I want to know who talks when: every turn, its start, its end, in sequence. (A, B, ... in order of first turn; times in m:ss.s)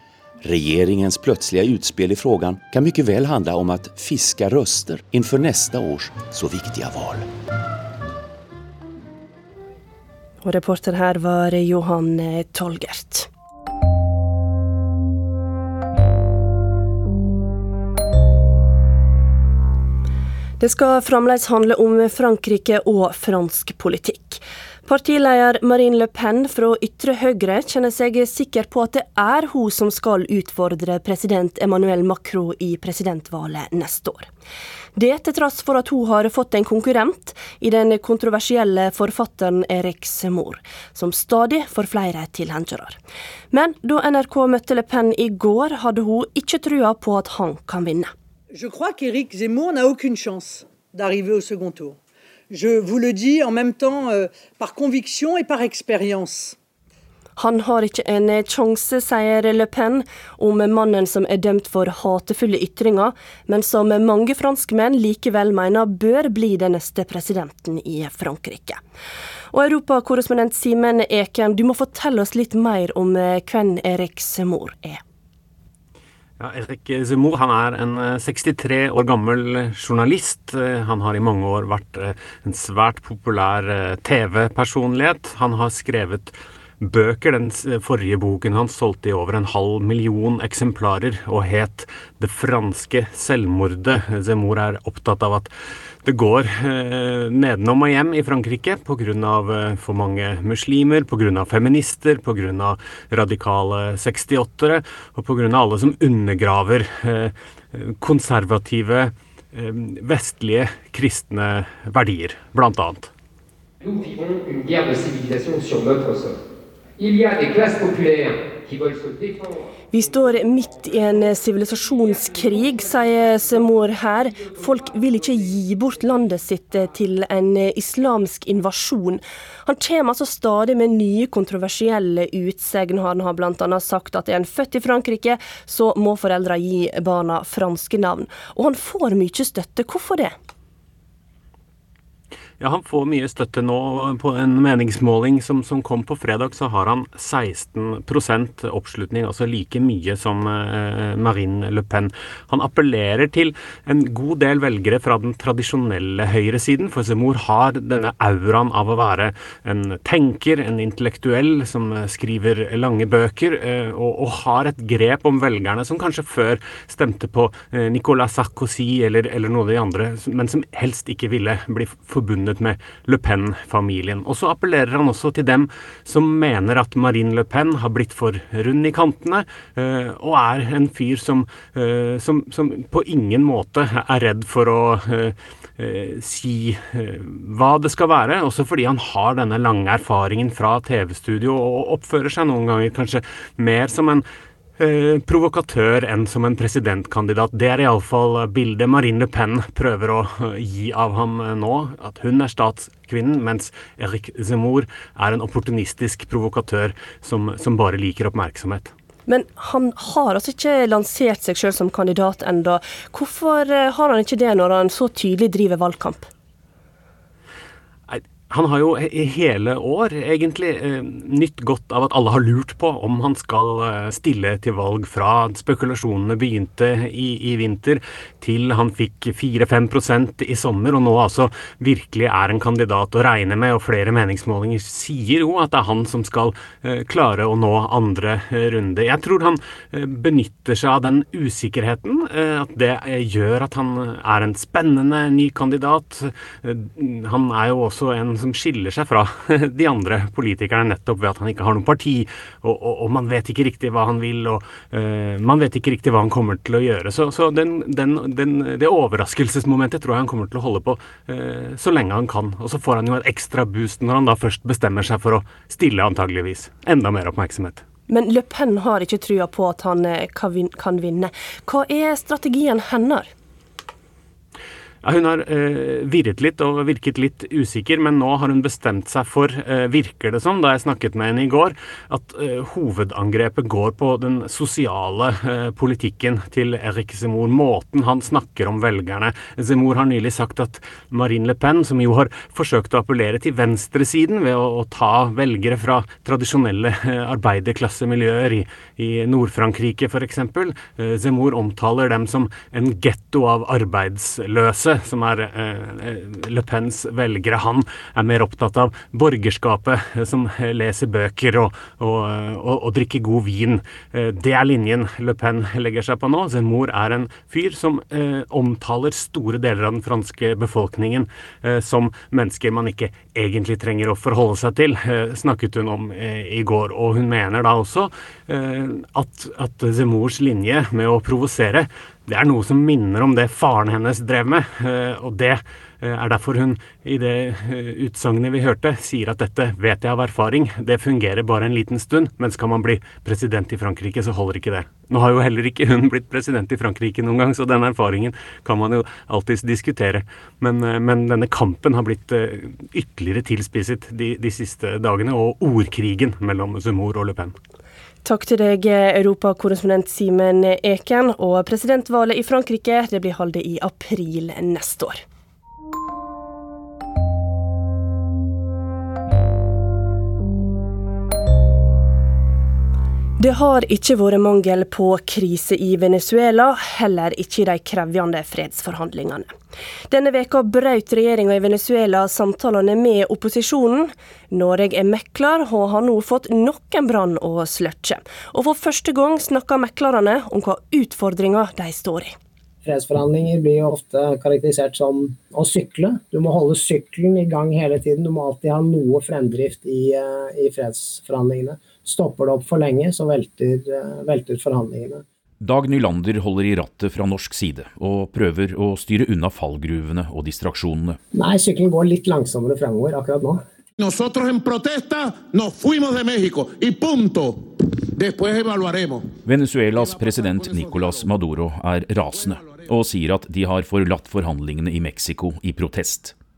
0:00.4-0:07.3 A
0:10.4-0:13.3 B
0:20.6-0:34.3 B
0:34.9-0:43.0 B
0:43.5-0:48.1 B
0:48.5-0:52.0 C
0:52.5-0:56.6 C
0:57.4-1:08.8 B
1:09.5-1:15.0 B
1:16.4-1:35.5 D
1:36.0-1:53.1 D
1:53.8-1:56.4 E
1:57.0-1:59.6 E
1:59.9-2:20.3 B
2:22.6-3:14.2 D
3:14.8-3:28.9 D
3:29.3-3:36.3 B
3:38.1-4:27.8 D
4:28.1-4:33.3 B
4:35.0-5:57.6 D
5:58.2-6:05.2 B
6:13.4-6:19.5 B
6:20.1-6:32.4 B
6:32.8-6:45.2 F
6:45.6-6:51.2 G
6:51.3-6:53.6 F
6:54.0-6:59.4 H
6:59.4-7:06.3 G
6:59.9-7:01.3 H
7:02.3-7:02.9 H